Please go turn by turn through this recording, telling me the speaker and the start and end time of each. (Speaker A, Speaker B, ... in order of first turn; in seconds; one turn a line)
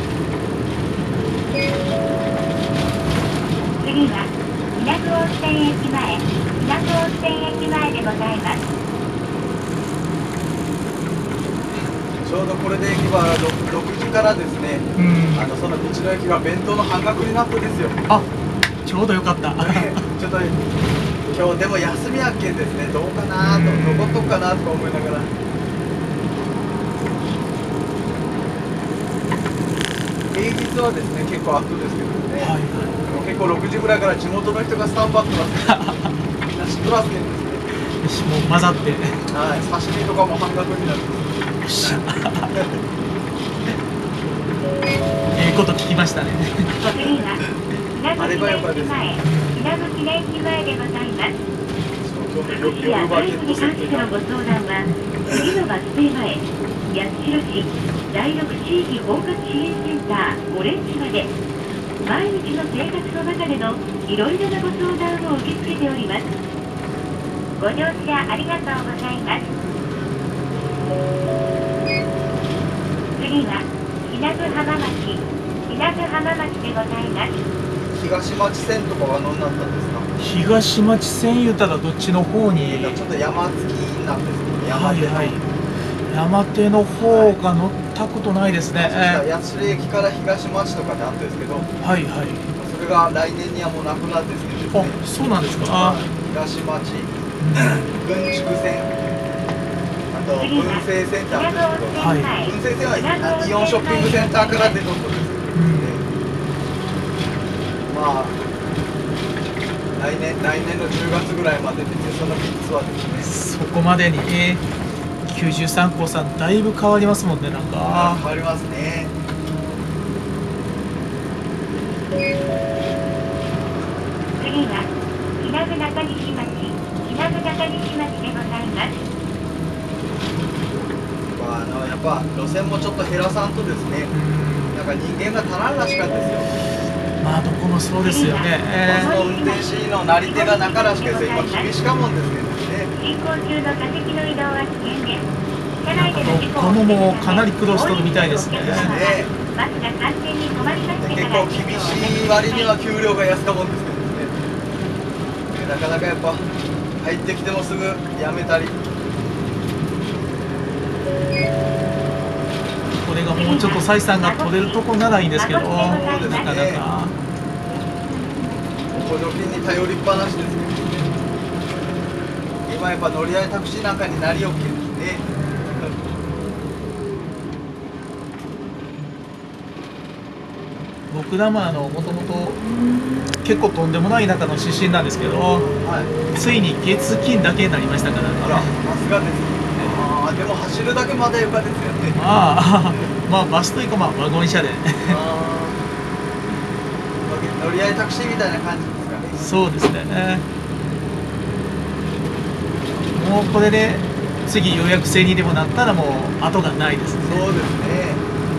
Speaker A: 3.8-8.6
Speaker B: 12.2-18.0
Speaker C: 15.0-15.5
Speaker C: 18.8-20.0
Speaker B: 19.6-20.6
Speaker B: 21.3-25.3
Speaker C: 23.4-24.3
Speaker B: 30.3-35.8
Speaker C: 32.4-33.0
Speaker C: 35.6-36.1
Speaker B: 36.5-37.6
Speaker C: 37.9-39.2
Speaker B: 39.3-42.8
Speaker C: 41.6-42.6
Speaker C: 45.3-46.7
Speaker A: 46.8-51.4
Speaker B: 48.2-49.1
Speaker C: 49.2-49.5
Speaker B: 52.0-54.1
Speaker A: 52.5-61.3
Speaker A: 62.0-66.3
Speaker A: 67.6-69.5
Speaker A: 73.2-77.4
Speaker B: 77.9-80.1
Speaker C: 80.2-83.1
Speaker B: 82.5-85.3
Speaker C: 84.7-85.4
Speaker C: 86.1-89.2
Speaker B: 87.0-87.4
Speaker B: 88.7-91.7
Speaker C: 91.8-92.5
Speaker B: 92.6-95.0
Speaker C: 94.7-96.0
Speaker B: 95.7-98.9
Speaker C: 97.4-97.8
Speaker B: 100.1-106.0
Speaker A: 100.4-104.8
Speaker C: 102.0-102.3
Speaker C: 105.5-106.0
Speaker B: 107.9-108.4
Speaker B: 110.0-113.3
Speaker C: 113.1-114.6
Speaker C: 115.3-118.2
Speaker B: 117.8-119.1
Speaker A: 124.4-129.0
Speaker B: 131.3-134.1
Speaker C: 134.1-134.8
Speaker B: 134.7-136.5
Speaker C: 137.2-139.1
Speaker A: 138.0-141.7
Speaker B: 138.8-142.9
Speaker A: 142.9-145.2
Speaker A: 145.8-152.7
Speaker C: 145.9-148.9
Speaker B: 148.6-149.3
Speaker B: 151.0-154.3
Speaker B: 155.5-156.4
Speaker B: 157.0-158.8
Speaker C: 163.0-167.1
Speaker A: 163.3-164.8
Speaker A: 165.3-166.5
Speaker B: 165.8-166.8
Speaker B: 169.0-171.1
Speaker B: 172.7-175.2
Speaker C: 175.3-175.9
Speaker C: 181.1-182.6
Speaker C: 183.4-185.7
Speaker B: 185.5-186.1
Speaker C: 186.3-188.7
Speaker B: 188.4-192.2
Speaker C: 192.1-195.2
Speaker B: 195.1-195.8
Speaker B: 197.2-199.4
Speaker C: 199.4-200.4
Speaker C: 203.1-207.4
Speaker B: 207.3-208.2